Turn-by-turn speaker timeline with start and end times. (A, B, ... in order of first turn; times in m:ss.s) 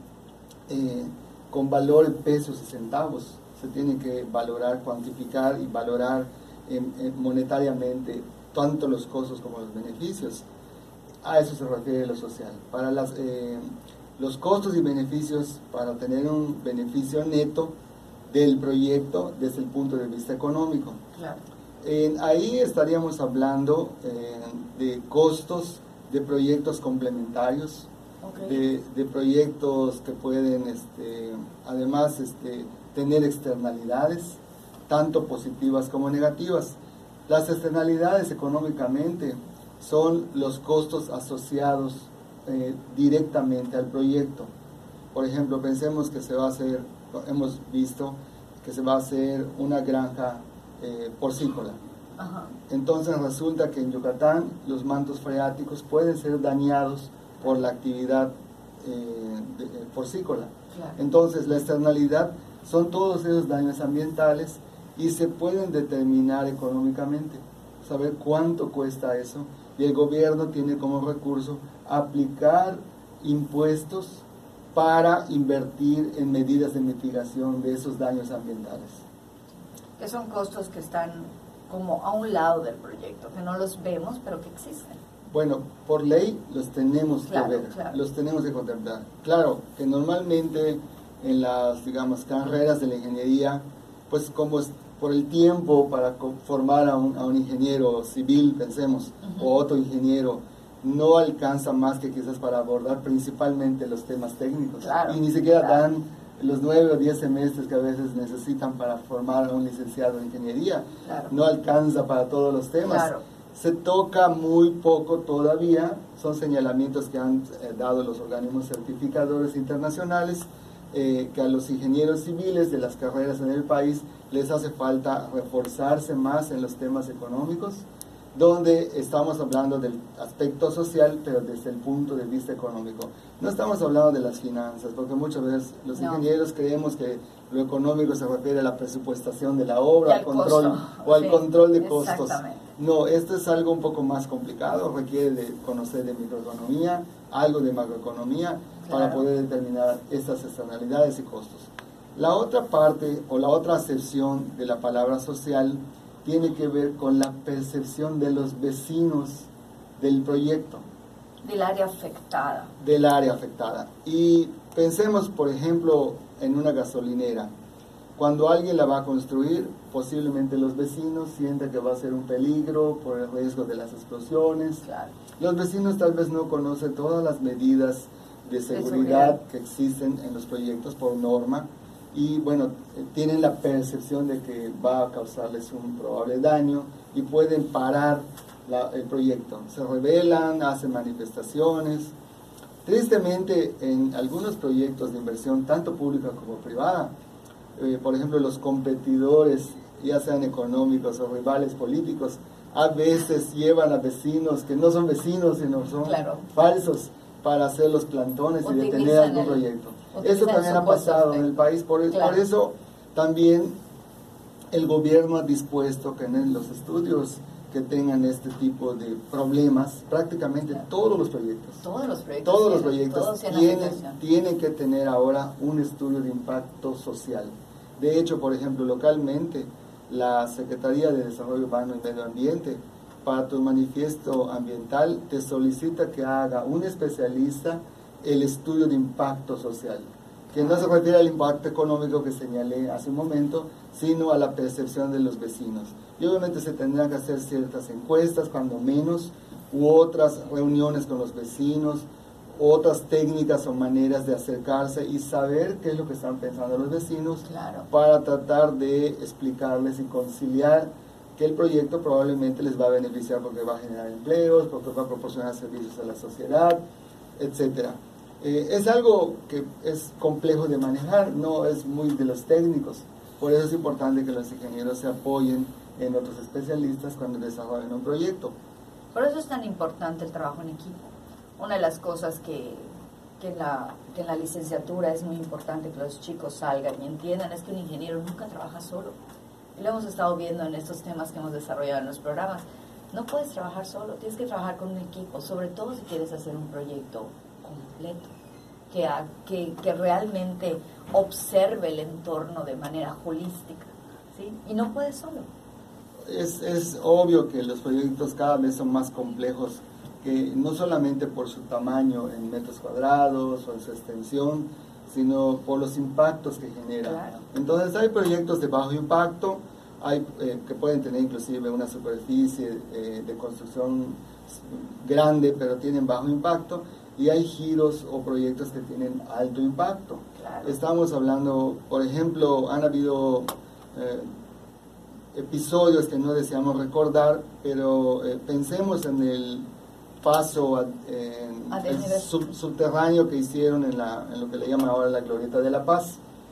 0:00.7-0:10.4 A
0:11.2-0:13.6 A
0:14.2-0:17.7 A
0:18.3-0:21.0 A
0:21.1-0:21.4 B
0:21.8-0:27.9 A
0:28.2-0:28.6 B
0:28.4-0:44.5 A
0:45.1-0:51.8 A
0:52.2-0:52.5 B
0:52.7-1:19.0 A
1:20.0-1:25.0 B
1:25.3-2:40.8 A
1:27.3-1:28.0 B
1:39.2-1:39.5 B
1:44.8-1:45.8 B
1:51.0-1:51.3 B
1:52.8-1:53.2 B
2:15.9-2:16.2 B
2:20.0-2:22.6 B
2:28.8-2:29.2 B
2:41.4-2:42.7 B
2:42.8-2:47.5 A
2:48.2-2:54.8 A
2:54.8-2:55.1 B
2:55.4-3:12.1 A
2:58.7-2:59.4 B
3:12.8-3:17.1 A
3:17.8-3:33.7 A
3:26.0-3:26.5 B
3:28.6-3:31.5 B
3:32.1-3:32.4 B
3:34.7-3:41.8 A
3:41.8-3:44.2 B
3:42.4-4:26.8 A
4:00.5-4:00.8 B
4:17.4-4:17.9 B
4:27.4-4:38.5 A
4:39.1-4:49.1 B
4:49.7-4:58.3 B
4:58.9-5:05.4 B
5:06.3-5:34.3 A
5:17.0-5:17.4 B
5:30.4-5:30.8 B
5:35.3-5:39.6 A
5:40.2-5:46.2 A
5:41.7-5:42.3 B